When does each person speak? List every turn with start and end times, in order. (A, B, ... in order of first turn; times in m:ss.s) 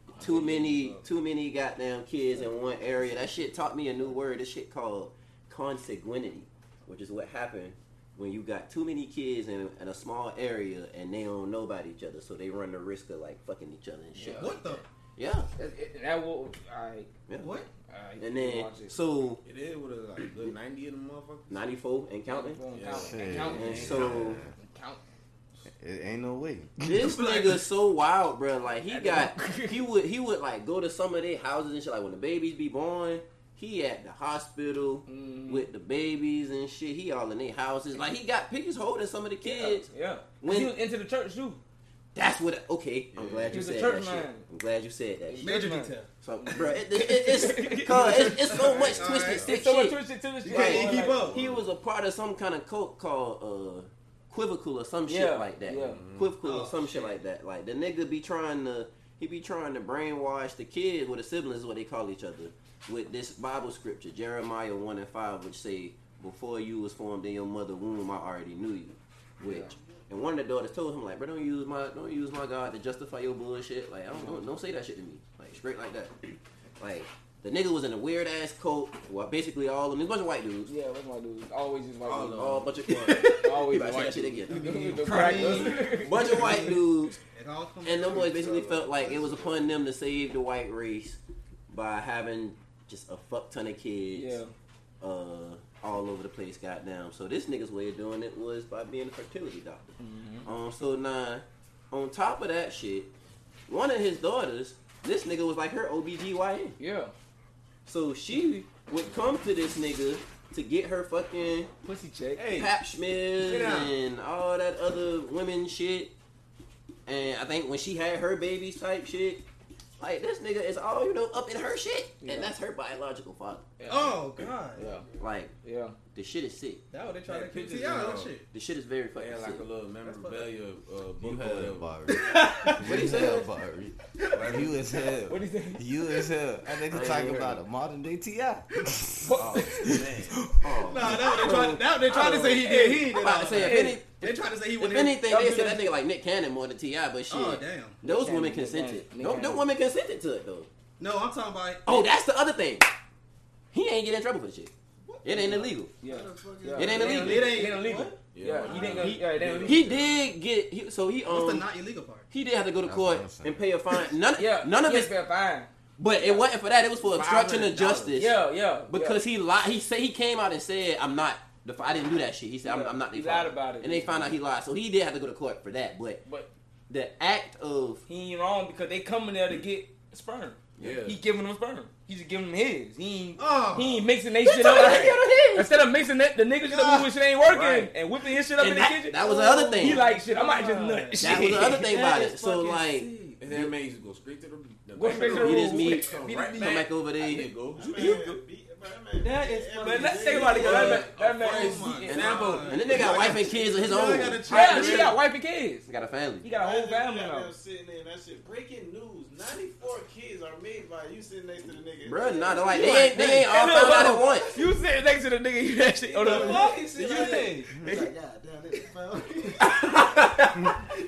0:00.1-0:01.0 A
0:00.2-0:15.5 B
0:14.2-0:14.5 C
0:14.3-0:14.8 D
0:15.6-0:17.1 C
0:17.3-0:17.6 B
0:17.4-0:17.7 D
0:17.8-0:19.0 C
0:18.2-0:19.4 B
0:19.4-0:21.7 A
0:21.5-0:22.6 B
0:22.3-0:25.0 C
0:22.7-0:24.2 A
0:22.9-0:24.5 E
0:23.5-0:24.4 B
0:25.7-0:27.2 E
0:26.8-0:39.9 B
0:28.9-0:29.8 C
0:35.1-0:35.7 C
0:39.4-0:41.6 C
0:40.4-0:40.7 B
0:42.1-0:45.6 B
0:43.1-0:43.7 A
0:43.5-0:44.4 C
0:45.2-0:48.7 C
0:45.4-0:46.1 D
0:46.2-1:20.7 B
0:47.8-0:49.5 D
0:48.5-0:49.5 A
0:49.4-0:51.3 C
0:50.4-0:51.4 D
0:51.1-0:51.7 A
0:55.1-0:56.0 C
0:55.8-0:56.4 A
0:56.4-0:57.1 D
1:09.4-1:09.7 C
1:14.1-1:14.5 C
1:20.7-1:22.5 C
1:22.0-1:22.8 A
1:22.3-1:27.2 B
1:22.9-1:23.5 D
1:23.3-1:26.7 C
1:24.5-1:28.6 D
1:27.8-1:34.4 B
1:28.1-1:29.6 A
1:34.1-1:34.5 C
1:35.0-1:43.1 B
1:40.0-1:40.5 C
1:43.7-1:46.8 B
1:46.8-1:47.1 C
1:47.8-1:51.7 B
1:51.8-1:52.5 C
1:52.4-1:52.7 A
1:52.4-1:56.1 B
1:53.4-1:53.9 D
1:57.1-1:59.4 B
2:00.0-2:03.7 B
2:02.2-2:02.5 C
2:03.8-2:05.1 C
2:03.9-2:04.9 D
2:04.8-2:05.0 A
2:04.8-2:05.3 F
2:05.2-2:05.5 B
2:05.6-2:06.0 C
2:06.1-2:06.8 B
2:06.9-2:08.4 D
2:07.3-2:08.4 A
2:08.4-2:09.7 B
2:09.2-2:11.9 A
2:11.2-2:20.7 E
2:12.1-2:13.1 D
2:12.8-2:13.5 B
2:14.2-2:14.4 D
2:14.4-2:14.8 A
2:15.3-2:15.9 C
2:16.9-2:17.6 B
2:19.2-2:19.7 C
2:19.4-2:20.4 A
2:20.6-2:30.7 B
2:20.9-2:25.8 D
2:22.0-2:24.0 C
2:25.3-2:25.7 C
2:27.3-2:28.0 D
2:28.0-2:29.6 C
2:31.0-2:32.1 D
2:31.8-2:32.9 B
2:33.7-2:34.7 B
2:35.2-2:36.0 B
2:36.0-2:40.0 C
2:36.0-2:37.4 F
2:36.7-2:37.7 B
2:36.9-2:38.2 D
2:38.3-2:40.2 A
2:38.7-2:41.7 B
2:38.7-2:39.1 D
2:41.2-2:42.3 D
2:42.3-2:45.1 B
2:42.8-2:43.6 E
2:44.4-2:46.5 C
2:46.0-2:48.4 B
2:47.1-2:48.2 A
2:48.1-2:49.2 C
2:48.9-2:56.2 B
2:52.6-2:54.3 C
2:56.9-2:58.0 B
2:58.1-3:11.8 C
3:00.8-3:01.2 A
3:00.8-3:01.0 B
3:03.4-3:04.1 D
3:04.4-3:05.7 B
3:06.7-3:07.1 D
3:07.4-3:07.9 B
3:08.5-3:10.0 B
3:09.4-3:12.9 D
3:11.2-3:13.7 B
3:13.0-3:13.4 C
3:13.4-3:18.2 A
3:15.0-3:16.8 C
3:15.2-3:17.6 B
3:17.7-3:21.0 F
3:17.9-3:18.4 C
3:19.2-3:25.2 D
3:19.8-3:22.7 C
3:20.6-3:23.3 A
3:22.1-3:25.2 B
3:24.4-3:25.9 C
3:25.9-3:26.4 B
3:26.4-3:27.5 C
3:26.5-3:33.2 F
3:32.0-3:34.6 B
3:32.7-3:36.7 C
3:32.8-3:33.3 D
3:34.2-3:34.6 F
3:36.1-3:40.3 F
3:36.2-3:37.9 D
3:39.6-3:40.5 C